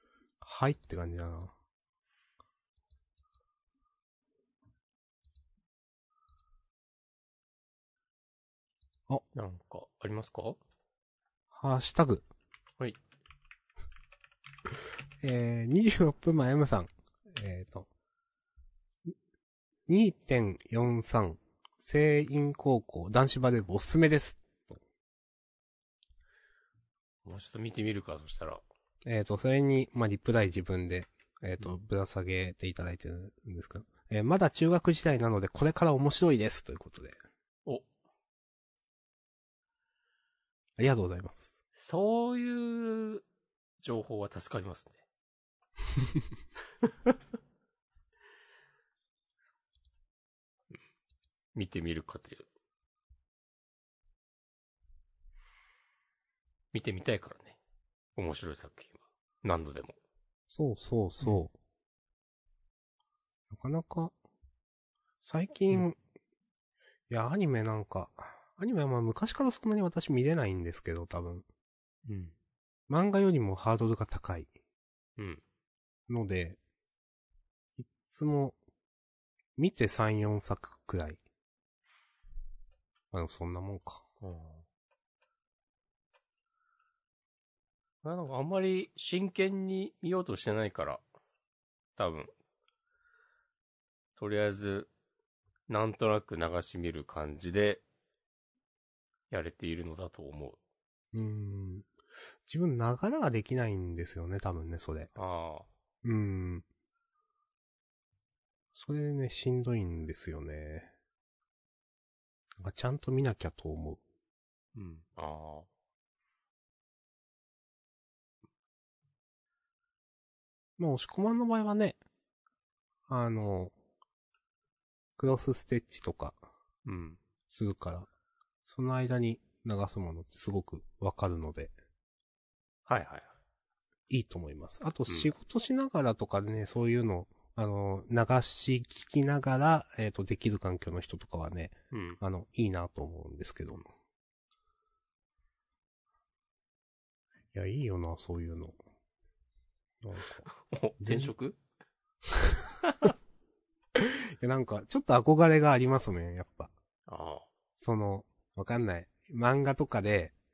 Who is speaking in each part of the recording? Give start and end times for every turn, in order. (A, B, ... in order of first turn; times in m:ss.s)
0:00.4-0:01.5 A
0:09.3-0:10.6 B
0:11.5-0:12.2 A
0:15.2-0:17.9 A
0:19.9-0:24.8 A
0:27.2-0:28.6 B
0:29.0-0:37.2 A
0:40.8-0:41.5 A
0:41.8-0:43.2 B
0:43.8-0:45.0 B
0:51.5-0:52.5 B
0:56.7-0:57.6 B
0:58.2-1:00.0 B
1:00.5-1:01.5 A
1:03.5-1:04.1 A
1:05.2-1:06.0 A
1:07.1-1:11.4 A
1:12.0-1:12.3 B
1:12.9-1:14.5 A
1:16.1-1:16.6 A
1:17.8-1:18.6 A
1:19.6-1:21.2 A
1:23.1-1:24.0 A
1:24.2-1:24.6 B
1:28.0-1:31.0 B
1:32.0-1:32.3 B
1:34.2-1:34.9 B
1:35.7-1:37.8 B
1:39.3-1:40.6 B
1:41.1-1:41.9 A
1:42.4-1:45.1 A
1:45.2-1:45.7 B
1:46.0-1:46.6 A
1:48.7-1:50.9 A
1:52.6-1:54.0 A
1:54.7-1:55.7 B
2:00.8-2:02.0 A
2:03.1-2:03.7 A
2:05.2-2:06.4 A
2:06.8-2:07.2 B
2:07.5-2:08.1 A
2:08.6-2:11.7 A
2:12.9-2:13.3 B
2:14.1-2:23.8 A
2:21.9-2:22.2 B
2:27.5-2:28.8 A
2:30.0-2:30.4 A
2:30.4-2:31.6 B
2:31.0-2:31.3 A
2:32.3-2:32.7 A
2:32.8-2:33.1 B
2:33.9-2:36.7 A
2:37.1-2:37.5 B
2:37.8-2:40.3 A